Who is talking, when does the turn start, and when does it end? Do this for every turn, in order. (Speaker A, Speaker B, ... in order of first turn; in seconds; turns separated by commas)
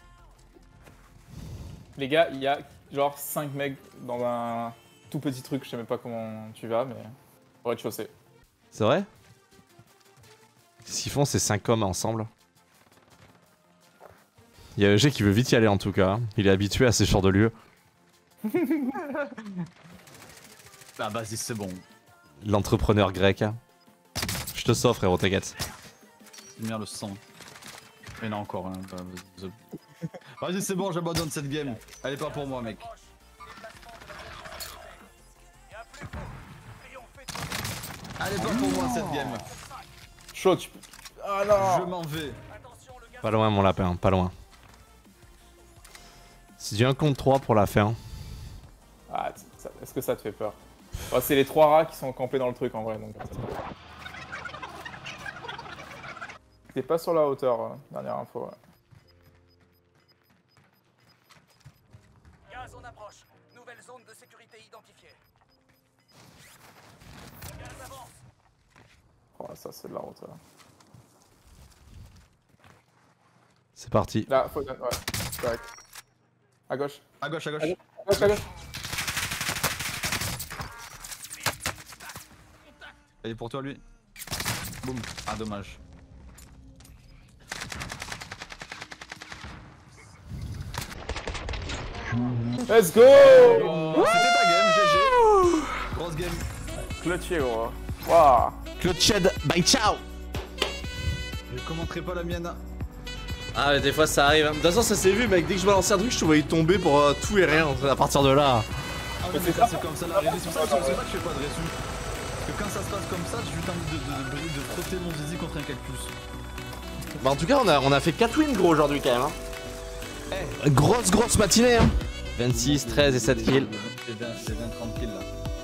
Speaker A: 2.0-8.1, Speaker B: 8.7-9.1, Speaker B: 10.8-12.3, Speaker B: 14.8-17.5, Speaker C: 18.9-19.6, Speaker C: 21.0-21.9, Speaker B: 22.4-23.6, Speaker B: 24.5-25.5, Speaker C: 26.5-27.2, Speaker C: 28.2-29.6, Speaker C: 30.4-32.9, Speaker C: 38.2-39.5, Speaker A: 38.4-39.4, Speaker A: 40.3-41.9, Speaker C: 41.5-42.4, Speaker B: 43.2-44.3, Speaker B: 46.6-48.0, Speaker A: 49.1-50.6, Speaker A: 51.1-53.5, Speaker A: 56.7-58.6, Speaker A: 69.4-70.4, Speaker B: 73.8-74.3, Speaker A: 74.3-75.7, Speaker A: 76.7-77.0, Speaker C: 77.2-78.4, Speaker A: 77.6-78.5, Speaker C: 83.2-83.8, Speaker C: 84.8-85.8, Speaker A: 92.7-94.3, Speaker C: 93.1-95.2, Speaker B: 95.2-95.7, Speaker C: 95.9-96.5, Speaker A: 96.9-98.6, Speaker B: 98.8-100.0, Speaker C: 101.5-102.6, Speaker B: 103.5-108.7, Speaker C: 109.2-111.8, Speaker A: 109.3-111.0, Speaker C: 112.5-116.2, Speaker B: 117.2-119.4, Speaker C: 120.3-120.6, Speaker B: 120.6-123.7, Speaker C: 122.4-125.3